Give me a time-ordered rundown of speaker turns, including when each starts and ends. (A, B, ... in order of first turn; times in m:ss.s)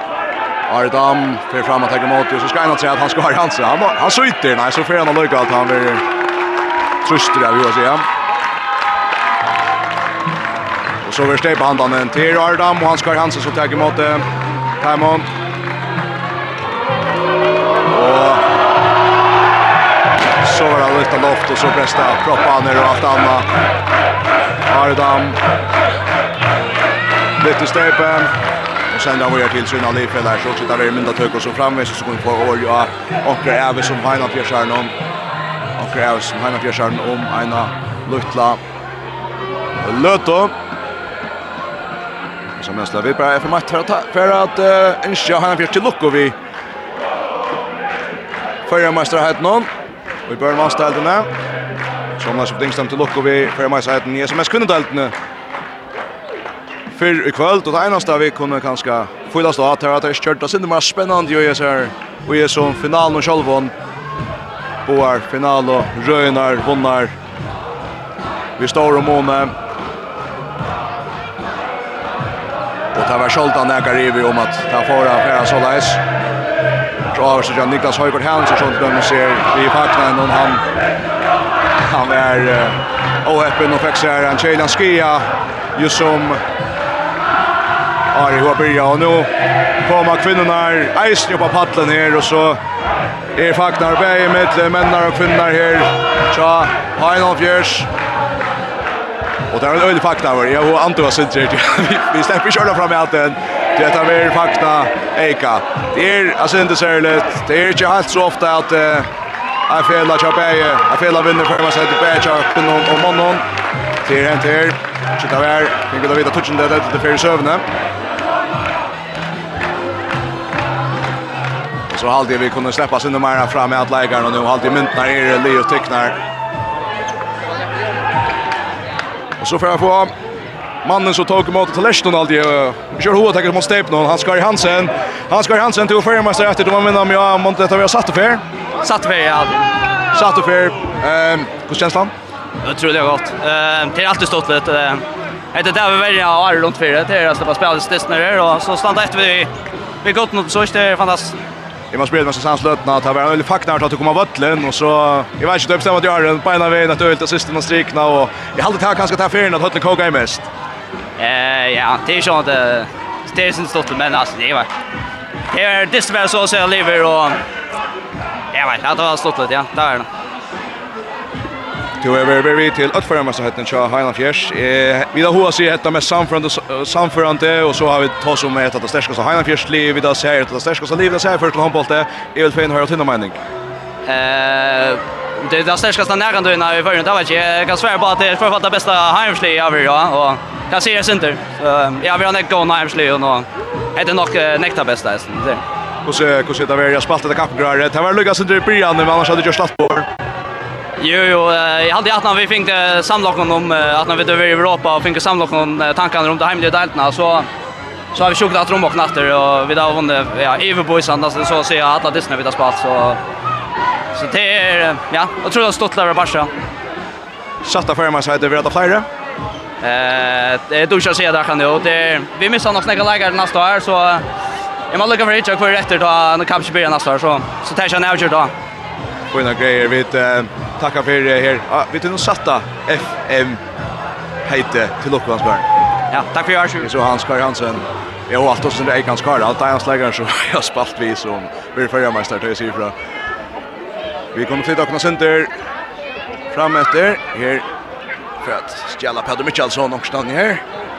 0:00.7-0:06.0 A
0:07.0-0:08.0 A
0:11.0-0:14.2 A
0:14.8-0:15.3 A
0:17.9-0:18.4 A
0:20.4-0:23.5 A
0:24.6-0:25.4 A
0:27.4-0:28.3 A
0:28.9-0:34.9 A
0:35.8-0:38.6 A
0:39.8-0:40.5 A
0:42.6-0:46.4 A
0:48.6-0:49.7 A
0:50.3-0:51.3 A
0:52.2-0:55.1 A
0:56.9-1:03.7 A
1:04.8-1:07.1 A
1:08.6-1:09.5 A
1:12.9-1:16.0 A
1:17.1-1:20.6 A
1:21.8-1:26.4 A
1:28.1-1:29.3 A
1:29.8-1:32.6 A
1:33.4-1:37.9 A
1:39.5-1:49.1 A
1:49.7-1:53.4 A
1:54.0-1:57.6 A
2:01.9-2:06.2 A
2:09.4-2:10.1 A
2:10.8-2:18.4 A
2:18.8-2:19.7 B
2:20.1-2:22.1 A
2:22.6-2:29.5 B
2:30.0-2:31.4 B
2:31.9-2:40.5 A
2:41.2-2:44.7 B
2:45.5-2:47.4 B
2:48.5-2:50.1 B
2:52.0-3:03.4 A
3:04.0-3:15.6 B
3:16.0-3:20.1 A
3:21.0-3:27.5 B
3:28.1-3:33.2 B
3:34.1-3:36.5 B
3:37.6-3:39.1 A
3:39.8-3:44.2 B
3:44.9-3:48.5 B
3:49.3-3:53.6 A
3:54.4-3:55.7 A
3:56.1-3:56.9 B
3:56.8-4:02.9 A
4:04.3-4:05.5 A
4:06.5-4:07.6 A
4:08.4-4:10.6 A